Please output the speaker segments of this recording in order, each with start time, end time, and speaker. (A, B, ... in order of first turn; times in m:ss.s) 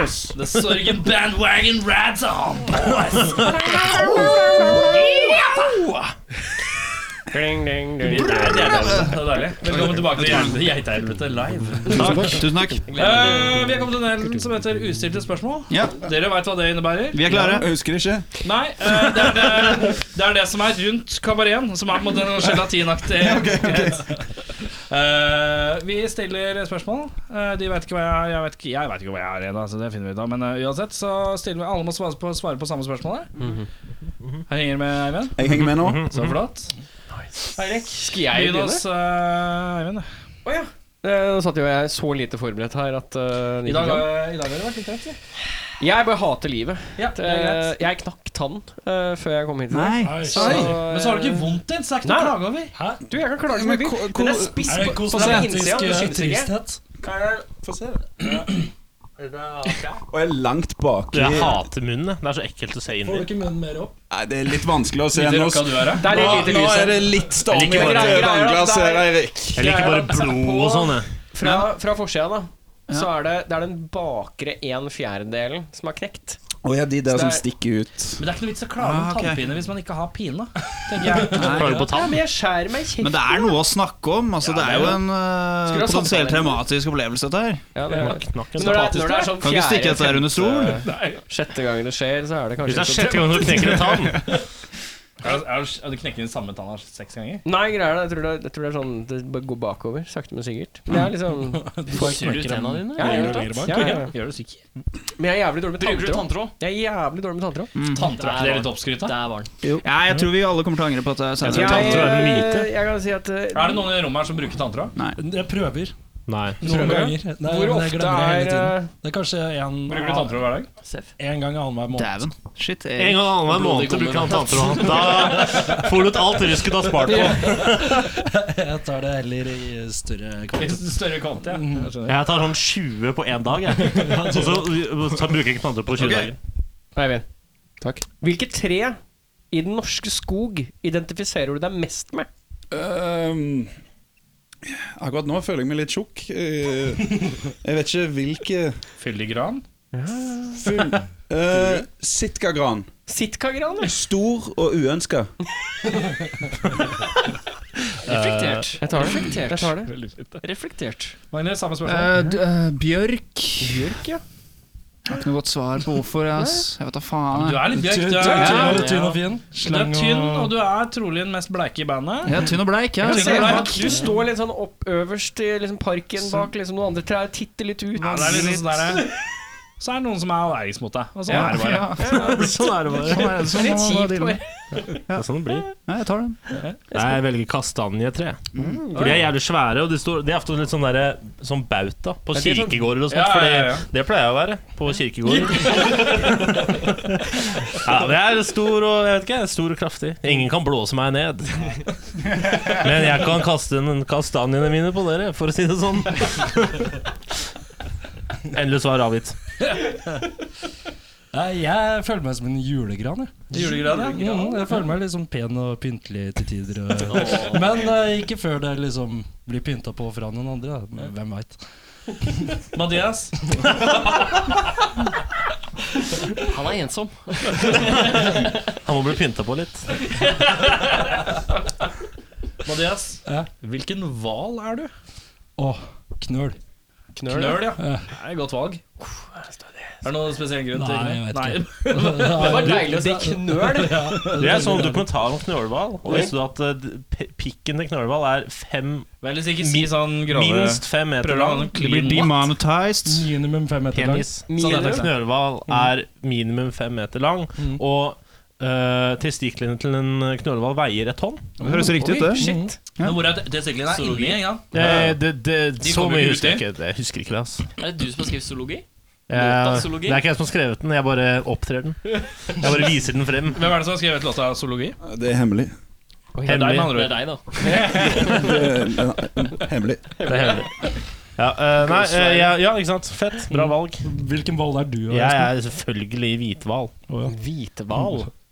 0:00.3-0:03.3 A
0:03.2-0:03.7 B
0:03.4-0:05.0 C
0:07.3-0:09.2 C
0:08.0-0:17.6 A
0:08.3-0:10.6 D
0:11.9-0:12.9 D
0:12.9-0:13.6 C
0:15.7-0:16.0 D
0:17.1-0:17.8 D
0:17.3-0:18.2 E
0:18.4-0:24.2 A
0:23.2-0:24.0 E
0:23.5-0:23.9 D
0:24.9-0:33.3 A
0:33.4-0:33.7 C
0:34.5-0:35.4 A
0:35.4-0:36.0 E
0:35.5-0:36.4 B
0:36.1-0:36.7 A
0:37.5-0:38.8 C
0:37.6-0:40.1 A
0:40.4-0:44.1 C
0:43.6-0:45.2 A
0:45.8-0:52.4 C
0:47.0-0:47.7 A
0:49.7-0:50.7 D
0:50.0-0:50.7 F
0:50.3-0:52.7 A
0:52.7-0:53.0 F
0:53.0-0:56.5 C
0:53.5-0:54.8 E
0:54.6-0:56.8 F
0:57.0-0:58.1 E
1:00.1-1:01.6 E
1:01.1-1:03.3 B
1:03.0-1:03.9 F
1:04.1-1:09.6 E
1:05.1-1:06.5 A
1:06.0-1:16.4 C
1:07.5-1:08.1 A
1:07.6-1:08.2 B
1:09.5-1:11.1 B
1:11.4-1:11.7 D
1:16.6-1:18.2 E
1:17.1-1:17.4 C
1:18.2-1:21.9 A
1:18.8-1:19.5 D
1:21.2-1:21.8 D
1:21.4-1:22.2 B
1:21.7-1:23.6 C
1:23.0-1:27.7 D
1:24.4-1:25.0 A
1:24.6-1:25.0 C
1:25.6-1:26.6 C
1:27.7-1:33.9 C
1:27.9-1:29.3 A
1:28.0-1:29.0 B
1:29.1-1:30.8 D
1:30.8-1:31.2 A
1:32.6-1:34.3 B
1:35.2-1:37.4 A
1:37.4-1:41.6 C
1:41.5-1:44.1 F
1:41.9-1:43.6 G
1:43.0-1:44.1 C
1:43.5-1:44.6 A
1:45.2-1:47.7 C
1:45.8-1:46.5 G
1:47.7-1:48.2 D
1:47.8-1:49.2 A
1:48.2-1:49.5 G
1:49.6-1:52.2 D
1:51.4-1:52.7 B
1:51.4-1:53.9 C
1:53.5-1:54.9 A
1:55.2-1:55.9 F
1:56.3-1:56.8 B
1:56.6-2:00.4 F
1:56.6-1:58.9 C
1:56.7-1:57.0 A
1:59.9-2:00.7 A
2:00.8-2:01.1 G
2:01.2-2:02.2 F
2:01.9-2:03.3 D
2:03.0-2:08.1 B
2:03.5-2:05.8 G
2:07.1-2:07.4 C
2:07.3-2:11.9 F
2:10.6-2:12.2 A
2:12.0-2:16.4 B
2:13.9-2:14.8 F
2:16.0-2:16.3 A
2:16.9-2:17.2 C
2:18.2-2:19.0 C
2:19.5-2:22.3 C
2:22.7-2:23.7 E
2:24.6-2:28.8 E
2:29.0-2:29.6 A
2:29.9-2:30.9 C
2:30.6-2:32.9 E
2:33.1-2:33.9 C
2:33.8-2:35.3 E
2:38.0-2:39.7 G
2:38.1-2:38.6 B
2:38.8-2:39.9 C
2:39.9-2:40.4 A
2:40.4-2:41.2 G
2:41.3-2:42.1 A
2:41.8-2:43.9 D
2:43.6-2:44.2 C
2:45.1-2:48.7 D
2:46.3-2:46.7 C
2:47.3-2:52.4 A
2:47.7-2:50.5 F
2:48.2-2:48.9 C
2:52.2-2:54.0 D
2:53.0-2:54.0 A
2:53.0-2:58.7 C
2:58.0-2:59.1 A
2:58.1-2:58.9 D
2:59.8-3:02.2 A
3:01.3-3:04.4 D
3:02.0-3:02.5 C
3:02.1-3:03.6 B
3:03.4-3:04.8 C
3:05.1-3:06.4 D
3:05.1-3:05.7 B
3:06.9-3:21.7 B
3:08.5-3:09.2 D
3:12.3-3:12.8 C
3:13.1-3:13.9 A
3:22.7-3:26.9 B
3:28.5-3:29.4 B
3:31.3-3:41.6 F
3:33.5-3:34.6 A
3:33.6-3:34.4 G
3:37.0-3:37.8 G
3:42.7-3:43.6 A
3:46.4-3:48.5 G
3:48.8-3:50.1 B
3:52.6-3:54.9 A
3:55.6-3:56.6 F
3:57.2-3:57.8 C
3:57.3-3:58.8 A
3:57.8-3:58.1 F
3:59.0-3:59.9 C
4:00.0-4:02.7 A
4:00.7-4:05.1 F
4:02.1-4:04.3 C
4:04.3-4:11.8 B
4:09.2-4:12.4 A
4:11.7-4:13.3 D
4:13.0-4:14.4 F
4:13.9-4:21.6 B
4:14.5-4:15.1 C
4:14.5-4:15.1 A
4:17.6-4:17.8 F
4:21.6-4:22.7 F
4:21.6-4:23.3 D
4:22.0-4:22.8 C
4:23.0-4:25.1 A
4:23.9-4:24.5 G
4:24.7-4:27.6 B
4:25.8-4:26.6 A
4:27.8-4:30.2 G
4:29.3-4:33.6 B
4:33.5-4:35.0 A
4:35.0-4:35.7 E
4:36.4-4:38.5 G
4:36.4-4:37.1 B
4:36.4-4:37.2 A
4:37.6-4:38.5 C
4:38.0-4:40.3 E
4:40.2-4:40.7 C
4:40.2-4:40.7 B
4:41.4-4:44.0 B
4:41.9-4:42.4 G
4:43.5-4:45.5 F
4:45.1-4:46.9 B
4:47.2-4:48.3 C